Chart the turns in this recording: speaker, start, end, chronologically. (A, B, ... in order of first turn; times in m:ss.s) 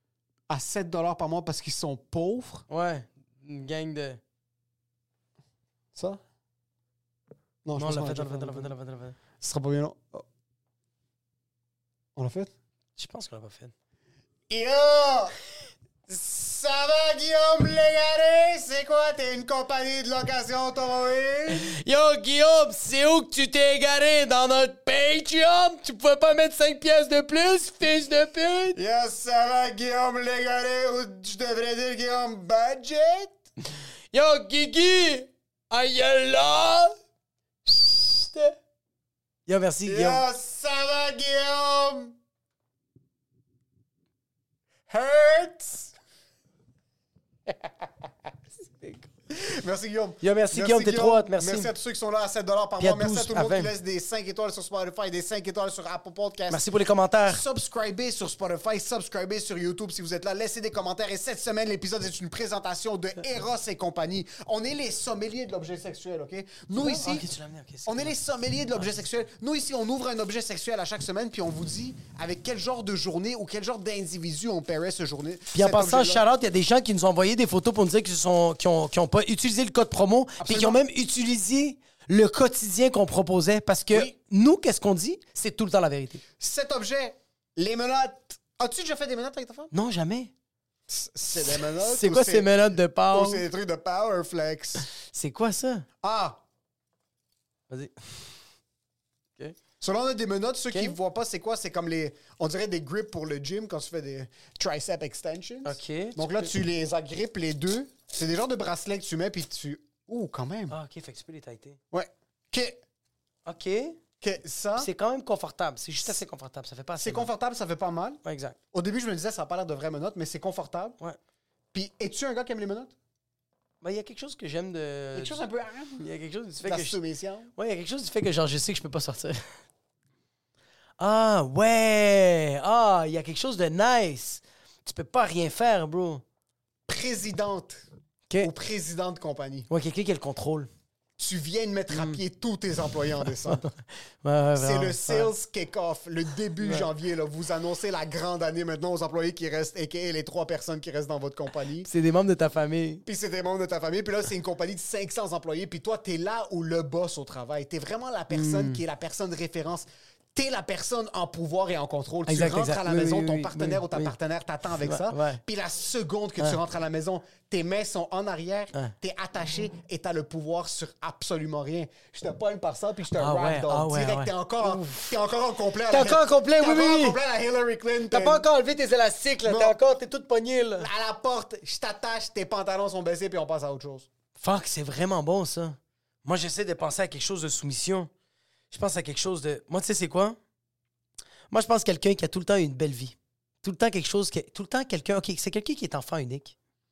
0:00.5-0:02.6 A
0:02.7-0:04.2 B
0:06.0-0:06.2 A
0:07.6-0:08.7 A
0:07.8-0:09.2 B
0:09.4-0:10.2 A
0:12.2-0:12.5 A
0:13.0-0:13.7 B
0:14.5-0:15.3 A
0:16.1-0:21.7 A
0:21.5-0:28.8 B
0:28.8-0:33.4 A
0:34.1-0:36.9 B
0:37.7-0:38.5 B
0:39.4-0:40.2 B
0:39.8-0:42.1 A
0:44.9-0:45.9 A
0:48.8-0:49.1 B
0:49.3-0:56.6 A
0:50.2-0:51.7 B
0:52.8-0:53.7 B
0:56.5-0:57.4 B
0:57.3-1:07.3 A
1:06.8-1:08.2 B
1:07.8-1:16.2 A
1:15.5-1:26.2 B
1:20.4-1:20.8 A
1:26.4-1:29.7 A
1:29.7-1:30.3 B
1:30.9-1:32.6 A
1:31.8-1:33.4 B
1:33.1-1:34.9 A
1:35.1-1:35.8 B
1:36.0-1:36.4 A
1:37.7-1:38.2 B
1:39.8-1:50.8 A
1:45.6-1:46.5 B
1:50.7-1:51.8 B
1:51.9-1:52.8 A
1:53.5-1:54.0 B
1:54.2-1:54.9 A
1:54.8-1:57.3 B
1:57.0-1:58.2 A
1:58.2-1:58.6 B
1:58.7-2:01.0 A
2:01.7-2:02.9 A
2:03.8-2:05.4 B
2:05.1-2:06.0 A
2:06.0-2:07.0 B
2:06.6-2:07.5 A
2:07.6-2:09.5 B
2:11.0-2:16.2 B
2:16.9-2:17.8 A
2:18.4-2:19.7 A
2:19.7-2:20.7 B
2:21.2-2:23.6 A
2:21.9-2:22.2 B
2:23.5-2:25.3 B
2:24.6-2:31.9 A
2:31.8-2:33.0 B
2:33.0-2:58.4 A
2:38.3-2:38.8 B
2:42.3-2:44.1 B
2:44.8-2:45.4 B
2:53.1-2:55.1 B
2:55.9-2:57.2 B
2:58.1-3:00.9 B
2:59.4-2:59.8 A
3:00.8-3:04.1 A
3:04.4-3:08.1 B
3:08.7-3:10.4 B
3:11.5-3:16.5 B